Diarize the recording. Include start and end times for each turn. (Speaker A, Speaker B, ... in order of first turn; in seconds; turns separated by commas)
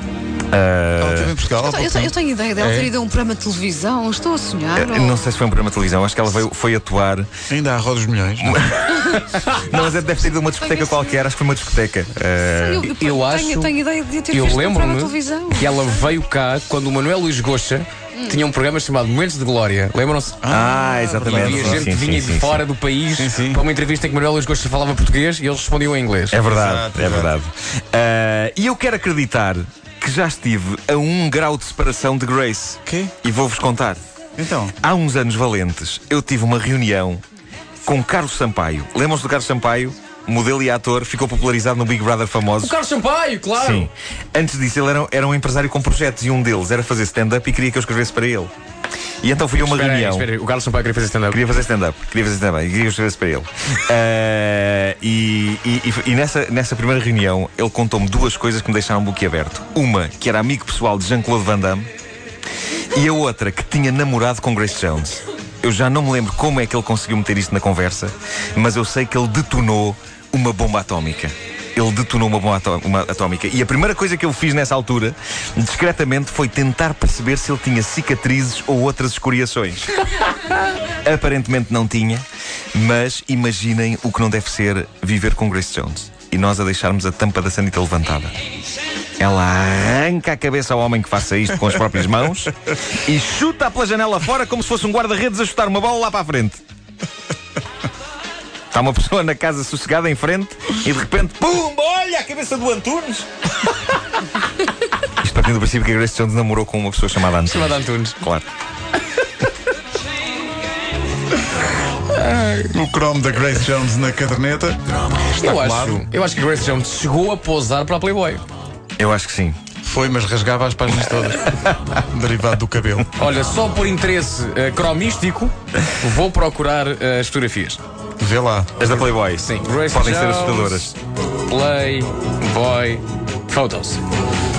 Speaker A: 0.5-1.4, Speaker B: 1.0-2.9, Speaker C: 1.6-5.3, Speaker A: 4.8-7.3, Speaker B: 7.5-8.6, Speaker A: 8.4-12.9, Speaker C: 8.9-9.2, Speaker C: 10.6-10.9, Speaker C: 12.6-16.0, Speaker D: 12.9-13.7, Speaker D: 14.3-20.4, Speaker C: 18.2-18.4, Speaker B: 20.4-21.9, Speaker A: 20.5-22.6, Speaker D: 21.2-26.4, Speaker B: 23.2-23.6, Speaker A: 26.3-34.0, Speaker B: 26.5-27.3, Speaker B: 32.9-33.1, Speaker B: 34.4-34.7, Speaker A: 34.8-37.2, Speaker A: 37.9-42.8, Speaker D: 42.6-43.9, Speaker A: 43.5-48.5, Speaker A: 49.2-50.3, Speaker D: 49.6-51.4, Speaker A: 51.3-61.9, Speaker A: 62.9-80.0, Speaker A: 81.0-88.3, Speaker A: 89.2-96.6, Speaker A: 98.7-103.3, Speaker A: 105.2-108.5, Speaker D: 107.3-108.2, Speaker D: 112.1-112.7, Speaker B: 112.7-114.8, Speaker D: 115.3-118.4, Speaker B: 115.3-116.1, Speaker A: 119.0-119.6, Speaker B: 119.8-123.1, Speaker D: 123.2-127.8, Speaker B: 128.2-128.9, Speaker A: 128.8-130.9, Speaker D: 129.4-131.0, Speaker D: 131.5-134.0